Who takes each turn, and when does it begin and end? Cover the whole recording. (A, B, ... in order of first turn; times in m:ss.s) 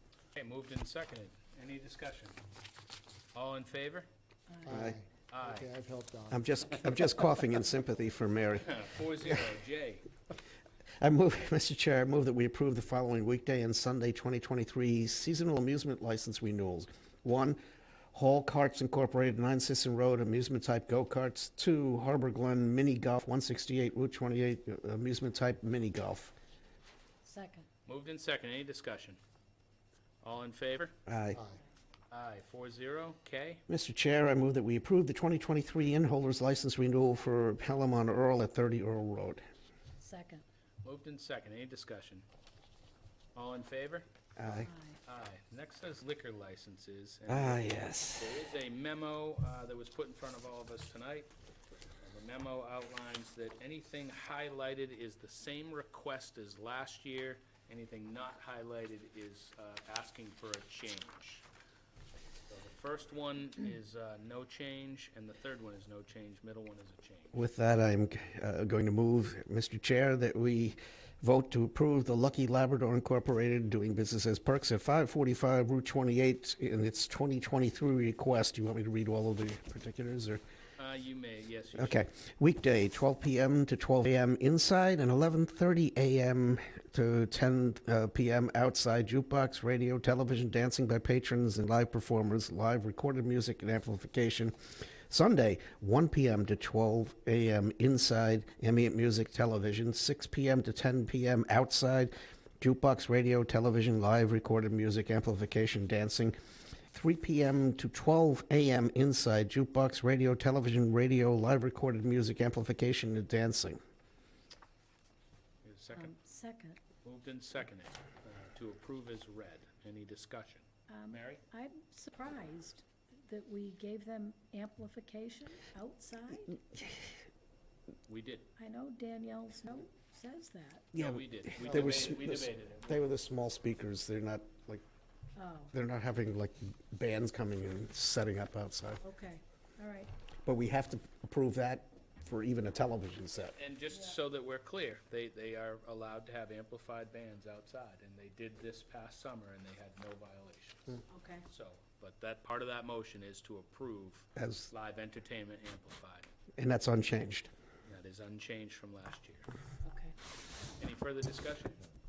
0:00.3-0:02.4 A
0:03.3-0:04.1 A
0:04.5-0:04.7 B
0:04.6-0:06.5 C
0:04.7-0:05.0 D
0:05.3-0:05.6 A
0:06.3-0:08.7 D
0:08.6-0:10.0 A
0:11.0-0:17.6 D
0:18.1-0:26.3 D
0:27.2-0:27.7 B
0:27.9-0:29.2 A
0:30.2-0:30.9 A
0:31.1-0:31.4 D
0:31.3-0:31.6 C
0:32.1-0:33.6 A
0:33.7-0:39.4 D
0:40.0-0:40.4 B
0:40.8-0:42.2 A
0:43.3-0:51.3 A
0:44.4-0:44.7 D
0:44.6-0:45.0 B
0:47.3-0:48.3 D
0:52.0-1:01.4 A
1:02.5-1:07.4 A
1:07.3-1:20.4 D
1:20.8-1:22.0 A
1:21.8-1:34.6 D
1:35.1-1:46.3 D
1:46.9-1:53.8 D
1:55.6-1:56.1 A
1:55.9-1:56.8 B
1:57.0-2:01.4 A
2:00.9-2:06.6 B
2:08.1-2:08.5 A
2:08.6-2:10.9 B
2:10.9-2:13.1 A
2:11.0-2:14.8 D
2:15.3-2:15.7 B
2:15.7-2:19.0 D
2:19.0-2:20.1 B
2:20.5-2:23.6 D
2:23.6-2:36.3 A
2:31.1-2:31.5 B
2:34.4-2:34.7 D
2:36.6-2:37.5 D
2:37.8-2:39.5 A
2:39.8-2:40.2 B
2:40.8-2:41.8 A